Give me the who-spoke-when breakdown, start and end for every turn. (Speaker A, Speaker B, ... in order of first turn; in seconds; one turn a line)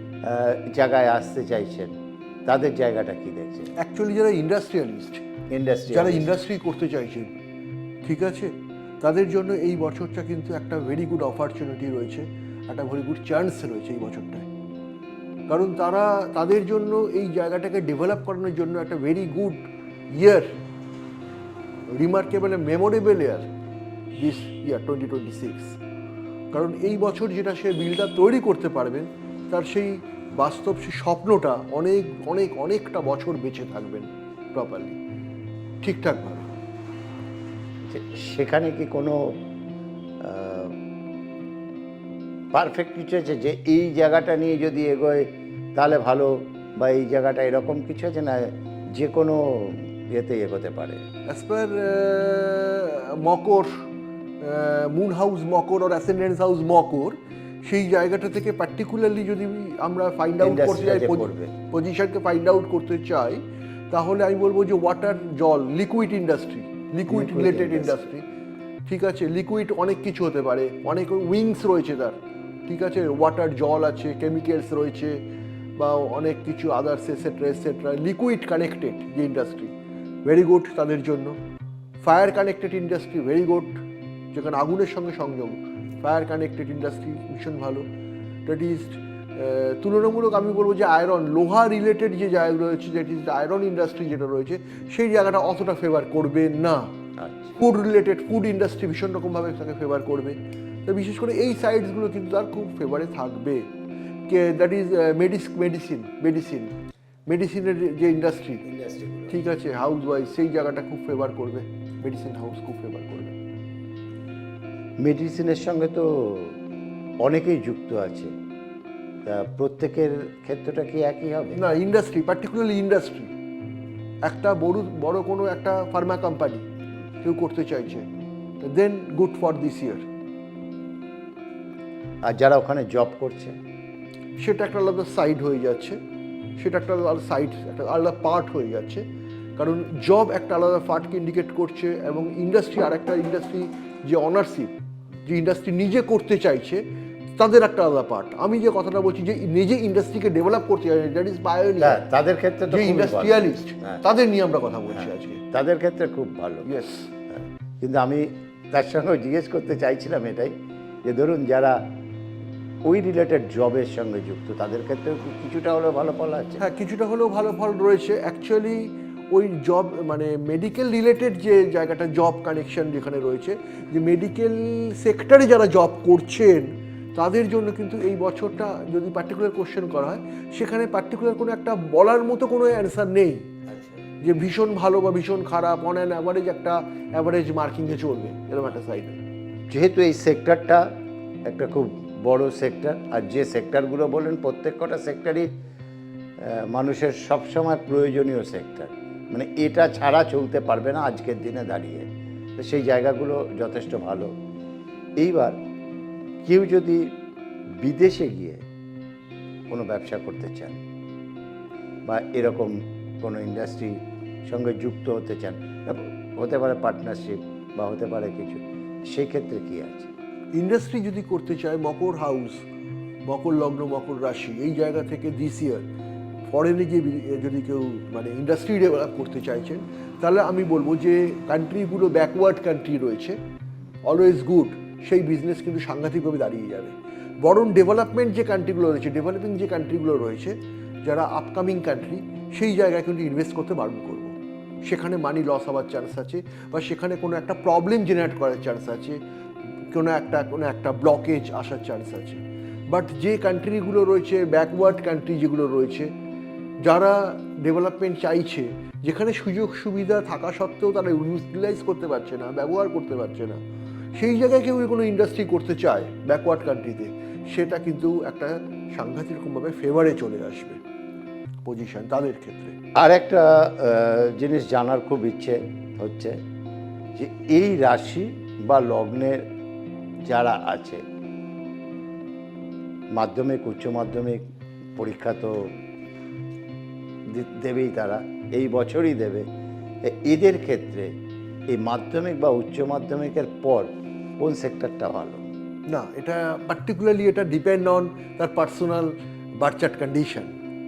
Speaker A: 0.2-1.9
Speaker A: 2.5-3.7
Speaker B: 3.8-5.3
Speaker A: 5.5-6.3
Speaker B: 5.9-7.3
Speaker B: 8.0-14.5
Speaker B: 15.5-20.5
Speaker B: 21.9-23.5
Speaker B: 24.2-25.8
Speaker B: 26.5-35.0
Speaker B: 35.8-36.5
Speaker A: 37.9-39.4
Speaker A: 40.2-40.8
Speaker A: 42.5-51.0
Speaker B: 51.3-53.7
Speaker B: 54.4-68.3
Speaker A: 60.4-61.5
Speaker A: 67.1-68.0
Speaker B: 68.9-72.2
Speaker B: 72.7-75.2
Speaker B: 75.8-79.7
Speaker B: 80.2-81.4
Speaker B: 82.0-87.9
Speaker B: 88.5-96.9
Speaker A: 97.2-97.5
Speaker B: 97.6-103.7
Speaker B: 104.3-106.7
Speaker B: 107.3-108.6
Speaker A: 108.6-109.4
Speaker B: 109.3-113.4
Speaker A: 115.0-116.6
Speaker A: 117.2-118.3
Speaker A: 119.2-121.6
Speaker B: 121.5-123.3
Speaker B: 124.2-126.7
Speaker B: 127.2-128.1
Speaker B: 128.6-130.1
Speaker A: 132.2-133.6
Speaker B: 134.4-136.0
Speaker B: 136.6-139.0
Speaker B: 139.6-144.7
Speaker B: 145.3-146.8
Speaker B: 147.4-152.0
Speaker A: 151.8-154.0
Speaker B: 152.7-155.4
Speaker A: 154.9-156.7
Speaker B: 156.7-157.1
Speaker A: 157.3-161.8
Speaker A: 162.8-166.6
Speaker B: 166.6-183.5
Speaker B: 184.2-189.2
Speaker A: 189.7-190.9
Speaker A: 191.5-195.5
Speaker A: 196.4-204.3
Speaker A: 205.2-205.6
Speaker A: 206.4-207.1
Speaker A: 207.8-208.6
Speaker A: 209.7-210.8
Speaker A: 212.1-220.1
Speaker B: 220.5-222.6
Speaker B: 223.2-225.8
Speaker B: 226.5-233.4
Speaker B: 234.1-244.3
Speaker B: 244.9-249.2
Speaker B: 249.9-256.1
Speaker B: 256.8-263.6
Speaker B: 264.1-270.8
Speaker B: 271.6-272.8
Speaker A: 273.0-276.4
Speaker A: 277.1-279.4
Speaker A: 280.3-281.0
Speaker A: 283.1-284.4
Speaker A: 285.0-285.7
Speaker A: 287.3-289.5
Speaker A: 290.0-291.1
Speaker A: 291.7-295.5
Speaker B: 295.9-300.5